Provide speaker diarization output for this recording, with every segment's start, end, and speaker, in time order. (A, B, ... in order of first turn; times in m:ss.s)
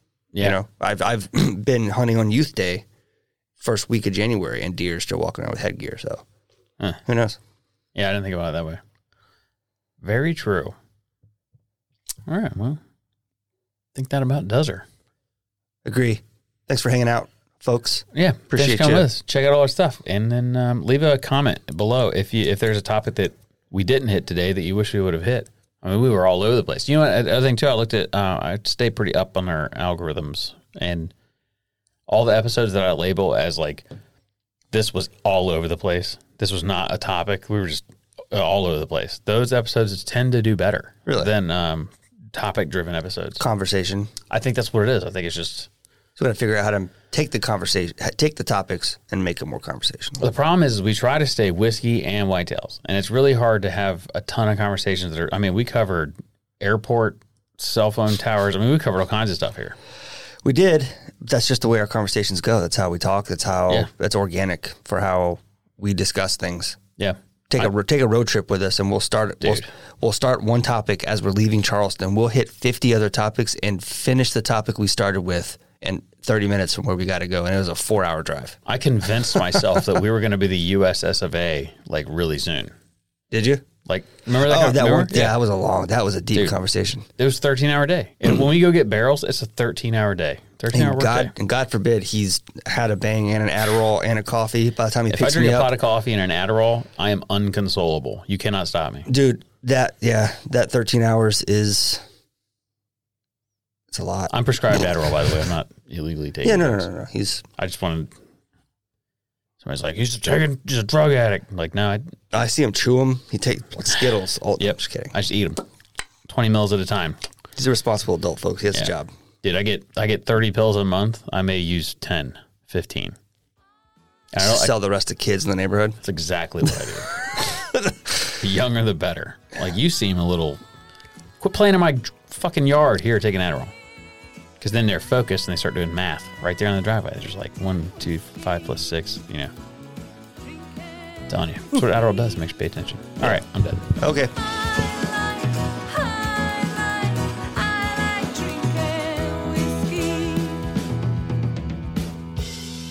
0:00.3-0:00.6 A
0:00.4-0:02.8 B
0:03.6-0:06.2 B
0:07.1-0:07.4 B
0:08.0-0:08.8 A
0:10.0-0:10.8 A
0:12.3-0:12.8 A
0:14.0-0:14.9 A
0:15.8-0:19.1 B
0:18.1-0:31.1 A
0:32.1-0:33.9 A
0:34.7-0:43.4 A
0:41.1-0:41.3 B
0:43.4-0:44.1 B
0:44.3-0:45.7 A
0:46.2-0:50.3 B
0:50.2-0:59.8 A
1:00.4-1:06.8 B
1:07.0-1:07.7 A
1:07.5-1:18.6 B
1:09.4-1:09.7 A
1:18.7-1:22.7 A
1:23.3-1:23.7 B
1:23.9-1:25.4 A
1:24.4-1:27.1 B
1:27.2-1:31.3 A
1:30.7-1:35.7 B
1:35.1-1:39.1 A
1:39.1-1:42.0 B
1:43.9-1:44.3 B
1:44.3-1:46.9 A
1:46.4-1:47.4 B
1:47.6-1:48.1 A
1:49.6-1:52.1 A
1:52.3-1:55.2 B
1:54.6-1:55.6 A
1:56.3-1:57.2 A
1:57.6-1:59.1 B
1:59.4-2:03.2 A
2:04.3-2:04.7 A
2:04.4-2:06.0 B
2:06.0-2:07.6 A
2:08.3-2:10.6 A
2:11.4-2:13.7 A
2:14.6-2:19.5 A
2:21.3-2:24.0 A
2:24.0-2:24.3 B
2:24.6-2:30.7 C